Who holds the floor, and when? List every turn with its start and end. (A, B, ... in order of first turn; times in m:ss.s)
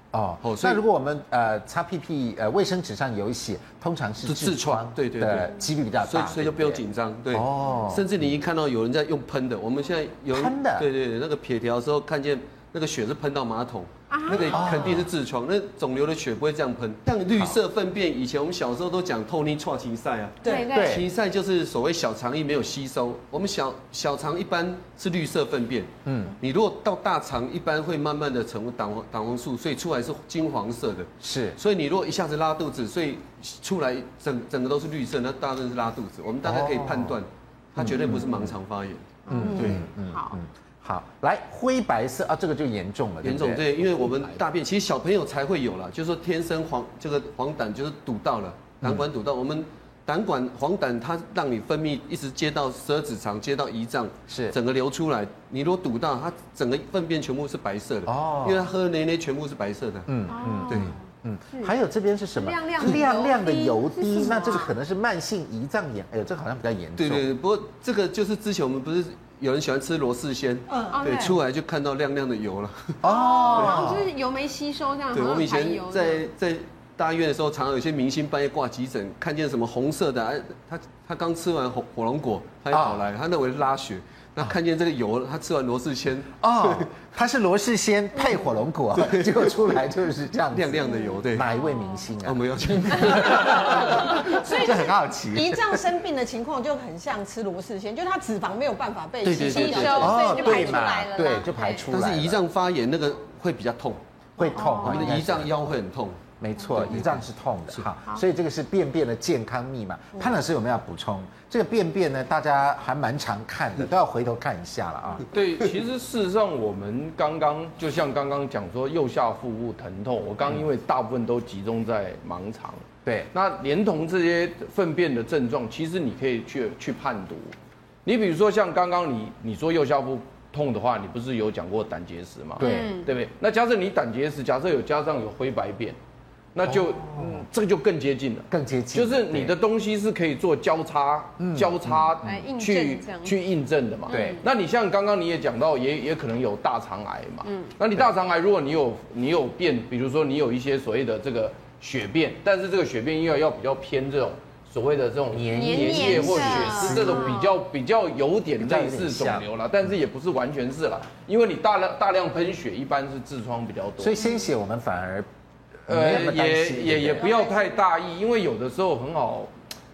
0:00.1-0:06.8 A
0:00.4-0:00.8 B
0:04.2-0:39.8 B
0:07.3-0:08.1 A
0:10.3-0:10.9 A
0:14.1-0:14.8 C
0:14.4-0:15.1 A
0:20.4-0:21.0 C
0:20.7-0:21.0 A
0:26.0-0:26.4 A
0:31.2-0:31.6 A
0:36.4-0:37.2 A
0:37.8-0:38.5 A
0:39.2-0:40.4 C
0:39.3-0:44.4 A
0:43.2-1:00.1 B
0:48.8-0:49.1 A
0:54.3-0:54.5 A
0:58.0-0:58.7 A
1:00.1-1:07.3 A
1:00.3-1:01.0 C
1:00.7-1:01.0 B
1:02.3-1:04.7 C
1:07.0-1:13.0 B
1:10.7-1:11.2 D
1:10.9-1:11.4 C
1:13.0-1:14.1 A
1:13.0-1:16.2 C
1:13.5-1:13.8 B
1:15.1-1:26.9 B
1:22.7-1:23.1 A
1:26.4-1:35.8 A
1:28.9-1:29.7 B
1:30.5-1:31.5 B
1:31.4-1:32.1 C
1:32.2-1:34.2 B
1:34.2-1:40.8 D
1:39.2-1:40.3 B
1:39.4-1:42.4 A
1:39.4-1:41.9 C
1:41.9-1:44.0 B
1:44.4-1:45.6 A
1:44.4-1:45.0 C
1:44.8-1:46.2 B
1:46.4-1:55.2 A
1:46.7-1:47.8 B
1:55.3-2:07.5 E
2:08.0-2:16.0 E
2:12.6-2:13.0 A
2:12.6-2:13.1 C
2:16.5-2:44.2 E
2:16.6-2:17.4 A
2:18.5-2:19.6 A
2:21.4-2:22.4 A
2:22.2-2:23.4 C
2:24.1-2:24.4 C
2:24.1-2:24.4 A
2:27.4-2:27.8 C
2:35.3-2:37.4 A
2:35.5-2:37.6 C
2:38.6-2:39.5 A
2:44.0-2:45.3 A
2:45.9-2:49.5 E
2:45.9-2:47.3 A
2:47.2-2:47.8 D
2:47.2-2:47.5 C